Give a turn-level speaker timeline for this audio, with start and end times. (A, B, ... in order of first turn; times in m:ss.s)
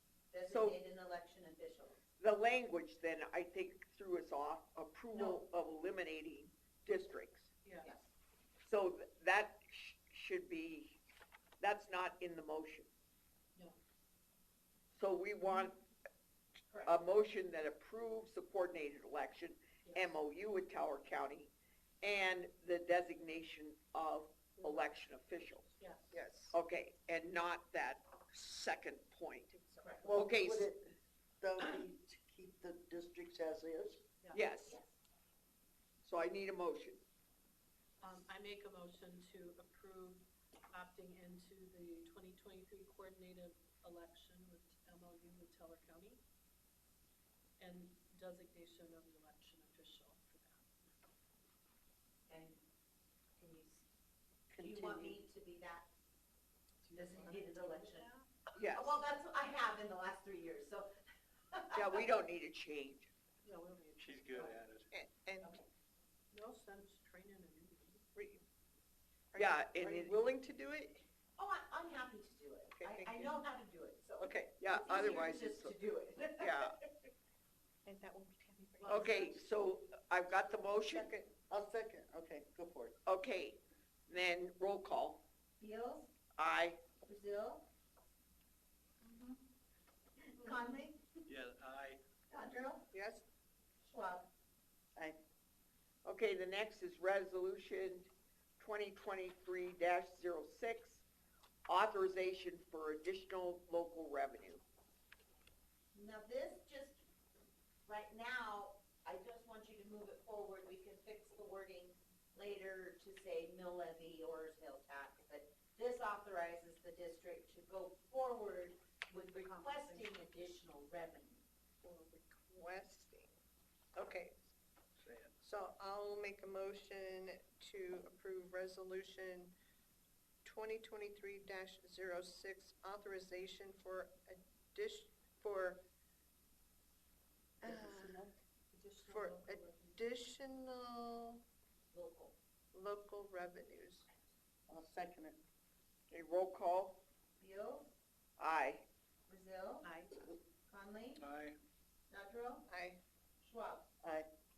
0:00.3-0:02.0 A
0:00.5-0:00.8 B
0:02.2-0:07.5 B
0:05.1-0:05.4 A
0:07.6-0:07.9 C
0:07.8-0:08.1 A
0:08.6-0:11.0 B
0:11.6-0:12.9 B
0:14.9-0:15.8 B
0:16.8-0:21.5 B
0:22.0-0:29.5 B
0:24.6-0:24.9 C
0:25.8-0:26.1 C
0:26.1-0:26.5 D
0:29.5-0:30.2 A
0:30.0-0:30.7 B
0:30.0-0:30.8 E
0:31.4-0:34.0 E
0:34.3-0:34.8 B
0:34.6-0:34.9 A
0:36.0-0:37.0 B
0:38.0-0:46.2 C
0:47.6-0:50.9 C
0:52.3-0:52.6 A
0:53.4-0:53.8 A
0:54.5-0:55.2 E
0:54.6-0:55.9 A
0:56.8-0:58.3 C
0:56.9-0:58.1 A
0:58.5-0:59.0 B
0:58.7-1:00.9 A
1:01.5-1:02.1 A
1:01.7-1:03.1 B
1:03.4-1:04.6 C
1:04.0-1:04.9 F
1:04.9-1:05.5 D
1:05.4-1:05.7 A
1:06.3-1:08.0 C
1:08.1-1:08.4 D
1:09.3-1:11.0 D
1:09.4-1:10.5 B
1:11.4-1:16.8 A
1:12.8-1:13.4 D
1:14.2-1:14.6 D
1:14.6-1:15.8 B
1:16.4-1:16.7 B
1:17.8-1:19.2 D
1:18.8-1:19.2 C
1:18.8-1:21.1 B
1:20.9-1:21.3 D
1:21.5-1:23.0 E
1:23.0-1:25.2 B
1:25.6-1:26.1 A
1:26.4-1:26.8 B
1:27.0-1:27.6 A
1:29.0-1:29.4 A
1:30.2-1:31.1 A
1:31.3-1:32.0 F
1:32.3-1:32.9 A
1:32.9-1:33.2 D
1:33.8-1:34.3 A
1:36.0-1:41.0 B
1:41.7-1:44.6 B
1:45.9-1:47.0 A
1:47.8-2:01.4 A
1:59.1-2:00.1 C
2:01.8-2:03.3 D
2:03.9-2:04.4 D
2:05.0-2:05.3 F
2:05.4-2:09.5 D
2:10.4-2:15.8 D
2:17.6-2:18.2 D
2:17.6-2:18.4 E
2:18.7-2:20.0 C
2:19.0-2:21.4 D
2:21.9-2:22.4 A
2:22.7-2:24.1 D
2:24.7-2:25.4 E
2:26.1-2:27.0 B
2:27.4-2:27.9 A
2:28.4-2:28.8 B
2:29.3-2:29.9 A
2:29.8-2:30.1 C
2:30.7-2:31.2 A
2:31.2-2:31.6 F
2:32.1-2:32.7 A
2:32.7-2:33.0 D
2:33.4-2:33.9 A
2:34.0-2:34.3 E